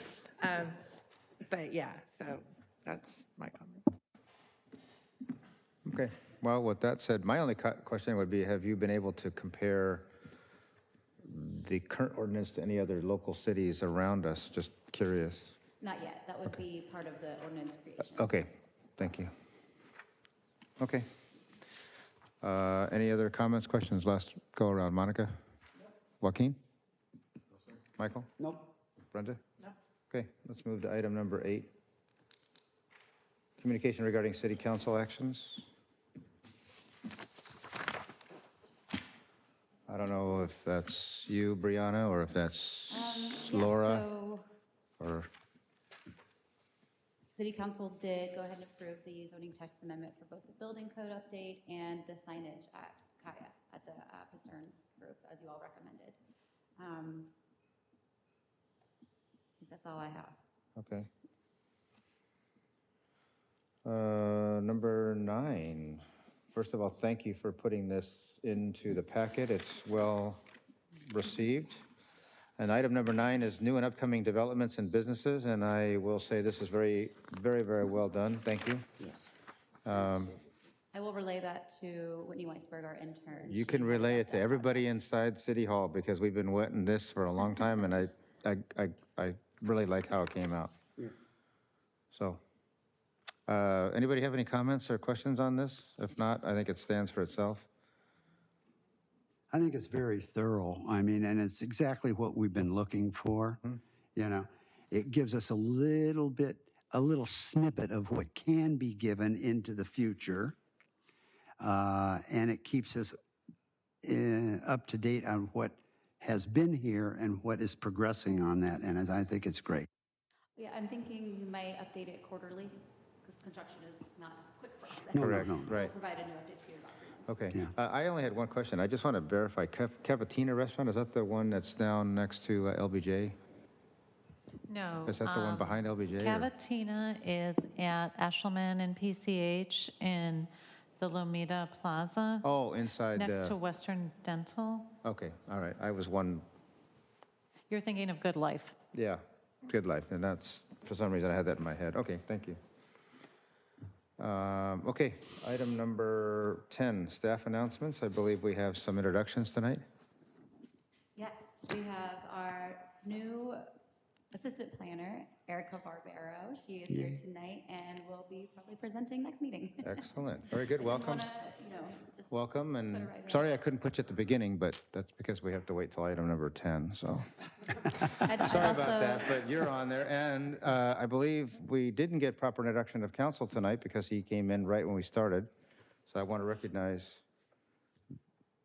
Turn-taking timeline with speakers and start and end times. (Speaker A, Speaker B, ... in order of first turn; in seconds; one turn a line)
Speaker A: 0.4-0.8
Speaker A: 1.5-3.8
Speaker B: 5.8-10.1
Speaker B: 11.2-15.5
Speaker C: 15.8-18.4
Speaker B: 18.1-19.3
Speaker B: 20.8-21.1
Speaker B: 22.4-25.3
Speaker B: 26.2-26.6
Speaker B: 28.0-28.3
Speaker B: 29.1-29.4
Speaker B: 30.1-31.7
Speaker B: 33.6-35.7
Speaker B: 39.9-44.0
Speaker C: 42.9-44.5
Speaker B: 45.0-45.3
Speaker C: 47.3-56.2
Speaker C: 56.8-57.3
Speaker C: 59.6-60.4
Speaker B: 60.8-61.1
Speaker B: 63.9-70.4
Speaker B: 71.0-71.8
Speaker B: 72.6-79.1
Speaker B: 79.8-80.4
Speaker C: 80.9-85.0
Speaker B: 83.5-90.8
Speaker B: 92.1-92.4
Speaker B: 93.5-97.7
Speaker D: 99.5-103.6
Speaker D: 104.2-110.6
Speaker D: 111.6-113.2
Speaker D: 114.0-119.9
Speaker C: 120.6-127.3
Speaker D: 125.1-125.7
Speaker B: 125.1-125.9
Speaker B: 127.3-133.4
Speaker E: 134.7-142.4
Speaker B: 135.1-136.5
Speaker B: 142.4-143.6
Speaker E: 143.1-144.9
Speaker B: 145.0-146.4
Speaker E: 147.7-148.8
Speaker B: 148.9-152.6
Speaker B: 154.2-159.8
Speaker C: 161.2-163.7
Speaker C: 164.3-173.6
Speaker D: 166.9-167.2
Speaker B: 169.8-171.3
Speaker B: 172.3-177.3
Speaker B: 177.8-185.5
Speaker C: 178.2-179.4
Speaker B: 186.1-187.2